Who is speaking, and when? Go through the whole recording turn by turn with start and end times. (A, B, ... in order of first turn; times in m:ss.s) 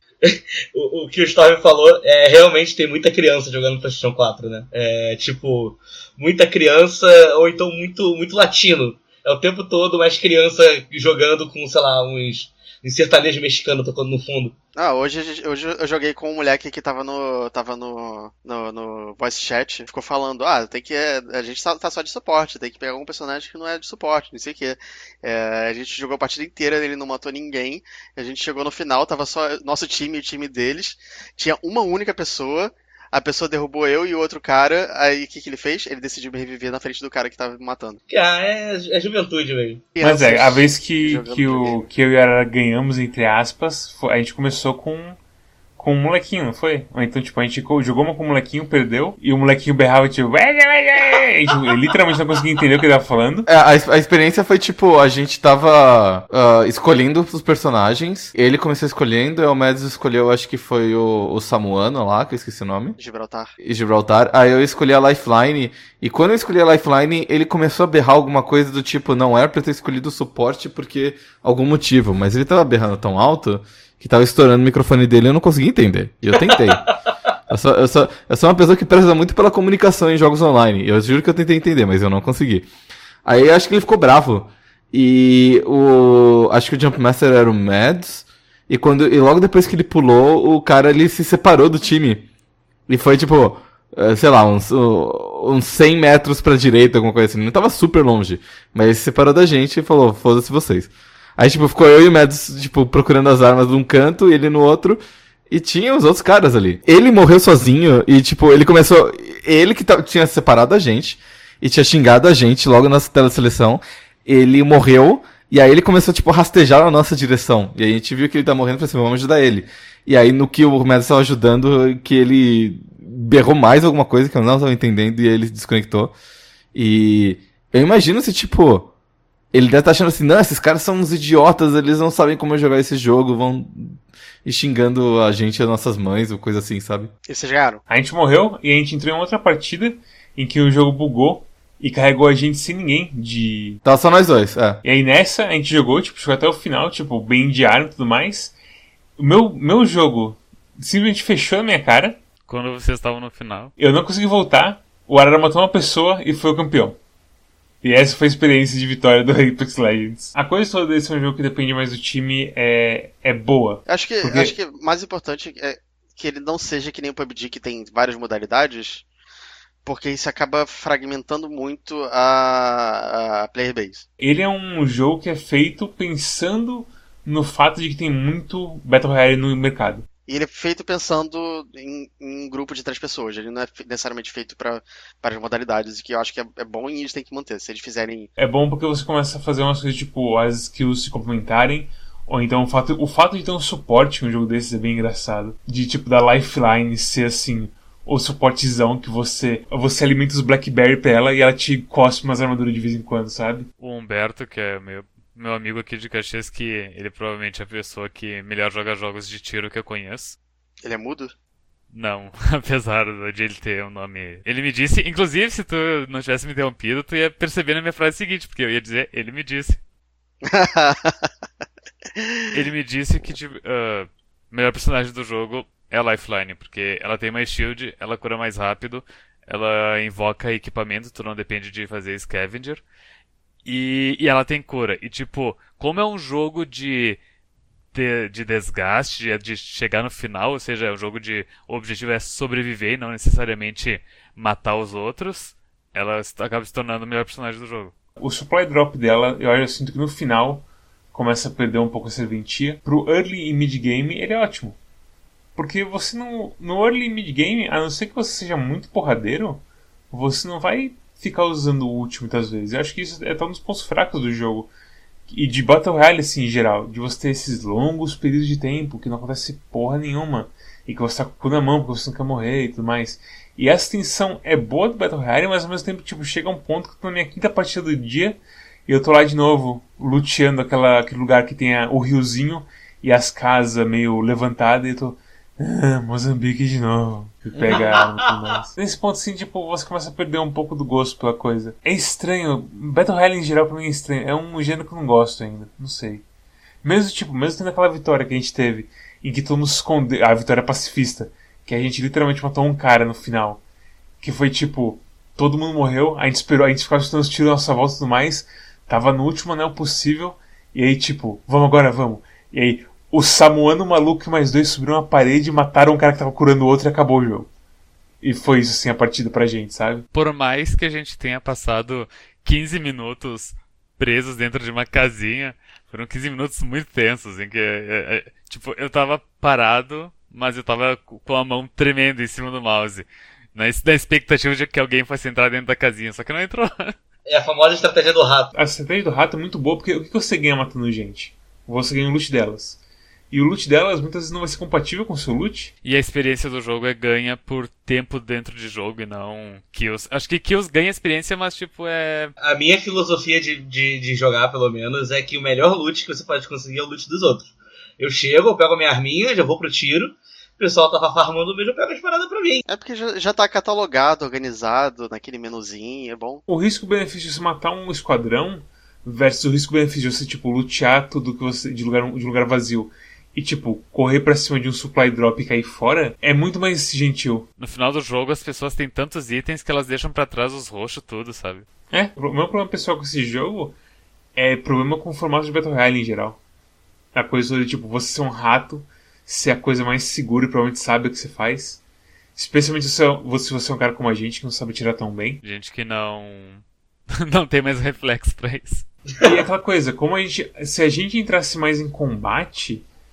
0:00.2-0:14.5 A
0:14.8-0:38.0 B
0:38.1-0:39.9 A
0:40.0-0:41.8 B
0:40.0-0:45.2 C
0:45.8-0:53.5 C
0:53.5-1:03.0 D
1:03.0-1:03.5 B
1:03.6-1:16.9 D
1:17.5-1:22.7 D
1:23.3-1:32.3 D
1:32.9-2:06.1 D
2:06.7-2:08.9 D
2:09.5-2:17.1 D
2:17.3-2:17.8 B
2:17.9-2:23.8 C
2:23.8-2:24.8 D
2:24.8-2:28.6 C
2:29.2-2:32.2 C
2:32.5-2:33.7 E
2:33.8-2:37.0 C
2:37.8-2:44.6 C
2:43.9-2:49.1 B
2:49.8-2:54.0 B
2:54.2-3:00.1 C
3:00.3-3:08.3 B
3:08.4-3:23.7 C
3:23.8-3:30.4 E
3:30.8-3:31.3 B
3:31.9-3:39.8 E
3:40.4-3:41.3 B
3:42.2-3:42.5 B
3:42.5-3:52.8 E
3:53.6-3:57.2 E
3:57.9-4:07.9 E
4:08.2-4:14.8 C
4:15.6-4:24.7 C
4:25.3-4:56.2 C
4:47.5-4:47.8 D
4:56.8-5:03.6 C
5:04.2-5:17.5 C
5:18.2-5:20.0 C
5:20.1-5:37.0 E
5:37.3-5:38.5 A
5:38.5-5:42.8 C
5:43.3-5:45.7 C
5:45.8-5:52.3 E
5:52.4-6:02.6 A
6:02.7-6:06.4 B
6:06.5-6:17.5 C
6:17.6-6:21.7 E
6:21.9-6:23.8 C
6:24.4-6:26.4 C
6:27.1-6:31.8 C
6:32.4-6:35.4 C
6:35.4-6:38.9 E
6:39.2-6:42.8 C